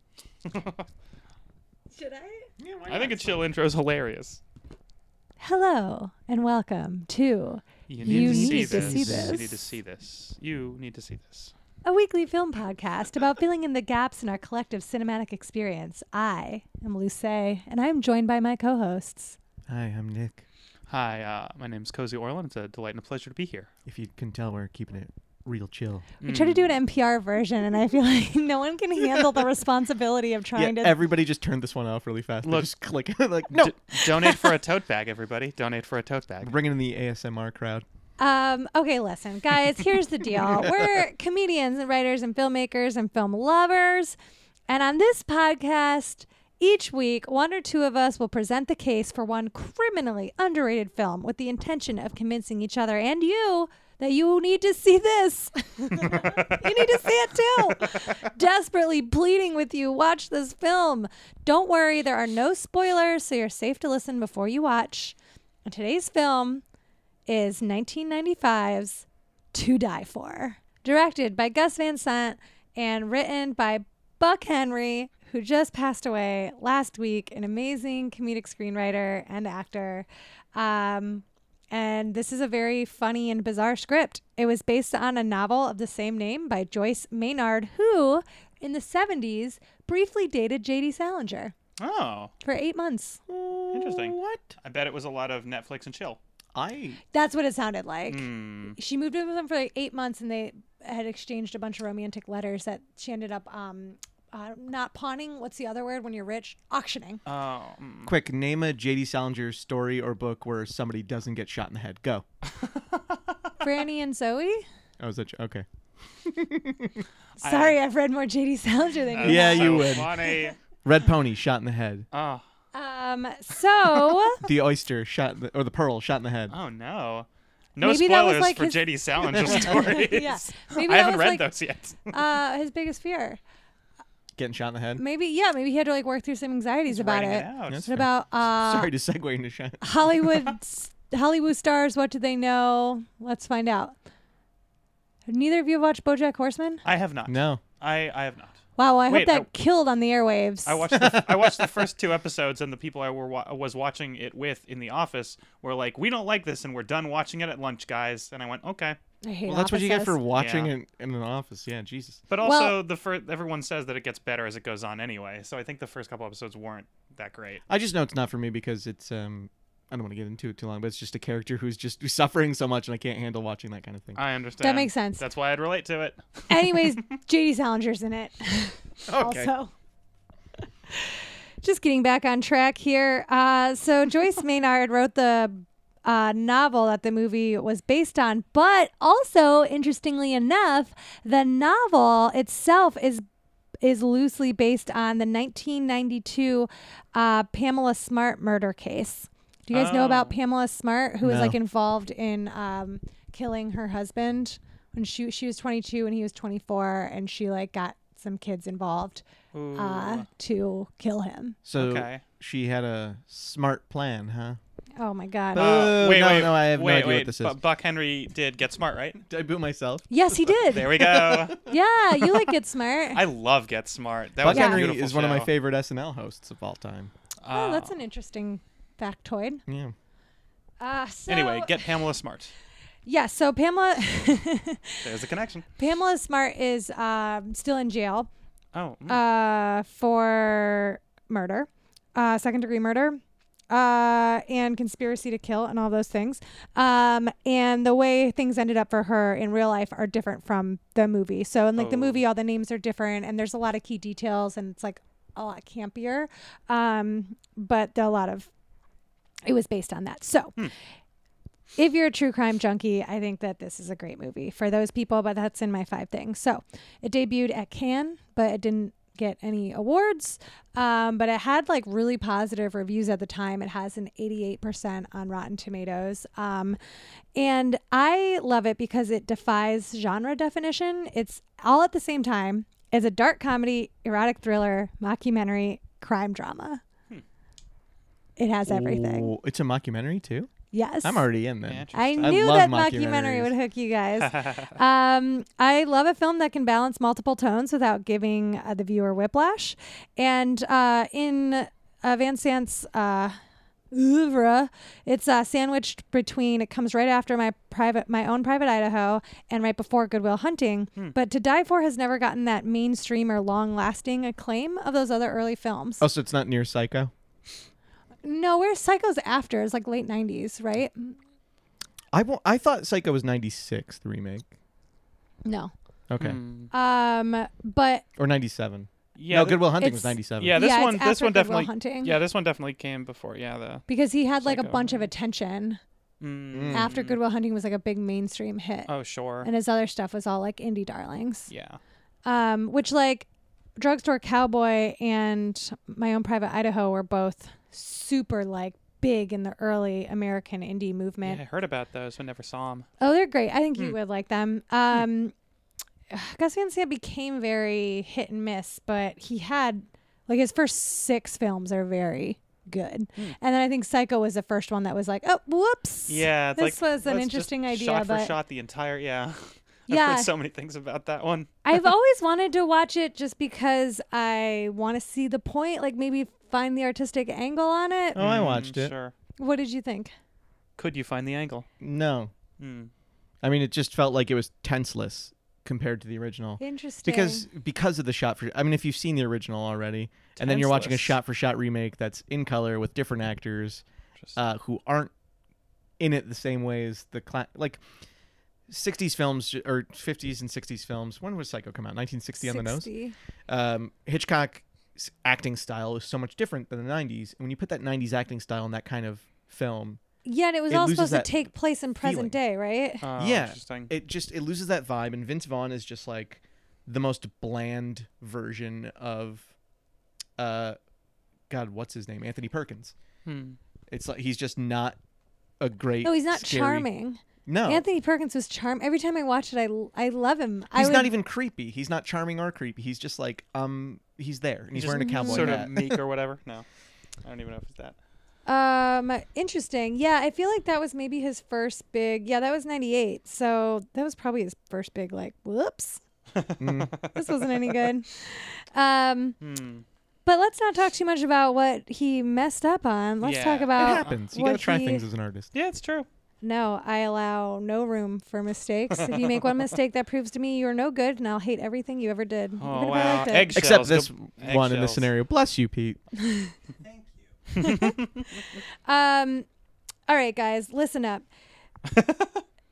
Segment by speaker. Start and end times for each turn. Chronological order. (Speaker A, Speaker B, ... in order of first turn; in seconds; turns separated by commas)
Speaker A: 0.4-0.8, Speaker B: 1.9-2.5, Speaker C: 2.6-3.5, Speaker A: 2.9-4.4, Speaker B: 5.4-9.6, Speaker A: 7.9-11.5, Speaker C: 8.0-9.5, Speaker B: 11.8-19.4, Speaker C: 19.7-20.4, Speaker A: 20.9-23.7, Speaker C: 23.9-26.1, Speaker A: 26.2-26.7, Speaker B: 26.2-31.0, Speaker C: 30.5-34.5, Speaker A: 32.4-32.7, Speaker A: 33.5-36.5, Speaker C: 36.4-37.8, Speaker B: 38.2-44.1, Speaker C: 40.5-40.9, Speaker B: 44.7-66.6, Speaker A: 56.1-56.7, Speaker B: 67.3-91.5, Speaker A: 91.8-92.3, Speaker B: 92.4-93.2, Speaker C: 93.3-94.5, Speaker A: 93.7-96.2, Speaker C: 96.5-97.0, Speaker B: 97.1-107.2, Speaker A: 98.1-98.8, Speaker A: 107.3-108.1, Speaker C: 108.0-112.2, Speaker A: 112.5-113.6, Speaker B: 113.6-114.6, Speaker C: 115.0-115.7, Speaker C: 116.2-117.1, Speaker A: 117.4-117.8, Speaker B: 117.4-120.5, Speaker A: 119.1-120.5, Speaker C: 119.2-122.1, Speaker A: 122.1-122.4, Speaker B: 122.7-124.4, Speaker C: 124.4-126.5, Speaker A: 126.5-132.2, Speaker B: 127.8-131.5, Speaker B: 132.1-133.4, Speaker C: 134.4-135.0, Speaker B: 135.0-138.9, Speaker A: 136.9-137.8, Speaker C: 137.7-140.3, Speaker B: 139.8-143.9, Speaker B: 145.3-146.8, Speaker A: 146.8-149.5, Speaker C: 147.2-147.6, Speaker B: 148.8-150.8, Speaker A: 150.7-159.0, Speaker C: 150.9-151.6, Speaker B: 159.2-160.2, Speaker C: 159.5-162.2, Speaker A: 160.3-160.7, Speaker A: 162.3-167.6, Speaker B: 162.4-162.8, Speaker C: 167.7-174.2, Speaker A: 174.2-176.9, Speaker B: 174.6-175.2, Speaker B: 176.5-179.7, Speaker C: 179.1-179.5, Speaker B: 180.9-193.2, Speaker B: 193.8-211.6, Speaker A: 199.7-200.3, Speaker C: 201.2-201.6, Speaker A: 209.5-210.2, Speaker C: 211.6-214.6, Speaker A: 211.8-212.2, Speaker B: 215.0-215.8, Speaker C: 215.5-217.6, Speaker A: 215.6-219.2, Speaker C: 219.3-222.4, Speaker B: 220.1-223.2, Speaker A: 220.7-221.6, Speaker A: 223.1-225.5, Speaker C: 224.4-227.1, Speaker B: 224.5-224.8, Speaker A: 227.4-228.0, Speaker B: 227.5-229.6, Speaker C: 229.7-229.9, Speaker B: 230.8-232.1, Speaker A: 231.3-232.5, Speaker B: 233.0-235.0, Speaker A: 235.0-235.7, Speaker B: 235.8-238.3, Speaker A: 238.7-239.2, Speaker B: 239.1-258.5, Speaker A: 251.8-252.2, Speaker B: 259.4-260.6, Speaker B: 261.8-276.8, Speaker B: 277.3-286.8, Speaker B: 288.4-289.3, Speaker C: 288.6-293.5, Speaker B: 290.7-291.3, Speaker A: 291.6-292.4, Speaker B: 291.9-303.4, Speaker A: 294.2-294.7, Speaker B: 303.9-316.0, Speaker C: 316.0-317.1, Speaker B: 318.2-321.2, Speaker C: 322.1-324.4, Speaker B: 325.4-325.7, Speaker C: 326.1-326.4, Speaker A: 326.2-326.7, Speaker B: 326.7-328.0, Speaker C: 328.2-330.6, Speaker A: 329.1-329.8, Speaker B: 329.8-332.2, Speaker A: 330.4-333.8, Speaker B: 333.9-335.8, Speaker A: 334.4-335.1, Speaker A: 336.2-337.2, Speaker C: 336.5-336.9, Speaker B: 336.7-341.5, Speaker A: 338.9-339.5, Speaker A: 341.5-341.8, Speaker B: 342.2-351.4, Speaker A: 351.2-352.9, Speaker B: 353.0-355.3, Speaker B: 356.1-368.4, Speaker A: 366.1-371.8, Speaker B: 369.9-370.3, Speaker B: 371.6-378.2, Speaker C: 378.1-378.9, Speaker A: 378.1-379.1, Speaker B: 379.4-380.1, Speaker A: 380.8-381.6, Speaker C: 381.8-382.3, Speaker A: 382.6-382.9, Speaker C: 383.4-393.8, Speaker B: 386.6-387.4, Speaker A: 390.4-391.1, Speaker C: 394.3-395.1, Speaker C: 396.0-397.8, Speaker C: 398.7-402.9, Speaker B: 402.4-403.1, Speaker C: 403.5-410.0, Speaker B: 410.2-413.0, Speaker C: 410.7-412.4, Speaker A: 413.0-413.9, Speaker C: 413.1-419.5, Speaker C: 420.4-420.8, Speaker C: 421.5-422.9, Speaker A: 423.2-423.6, Speaker C: 423.9-425.0, Speaker C: 425.6-426.9, Speaker B: 426.0-431.1, Speaker C: 427.4-427.8, Speaker C: 430.7-436.0, Speaker A: 434.7-436.6, Speaker B: 434.8-435.7, Speaker A: 437.2-438.0, Speaker B: 438.4-446.0, Speaker A: 446.3-447.5, Speaker C: 446.6-446.9, Speaker B: 447.1-449.4, Speaker A: 449.4-449.8, Speaker B: 450.2-455.0, Speaker A: 453.2-454.2, Speaker C: 453.7-455.5, Speaker A: 455.5-456.1, Speaker B: 456.4-463.5, Speaker A: 458.9-459.7, Speaker A: 462.6-465.1, Speaker C: 463.5-466.0, Speaker B: 466.2-466.5, Speaker A: 467.5-468.2, Speaker B: 467.6-467.9, Speaker B: 468.8-469.4, Speaker B: 470.1-471.2, Speaker A: 471.9-472.4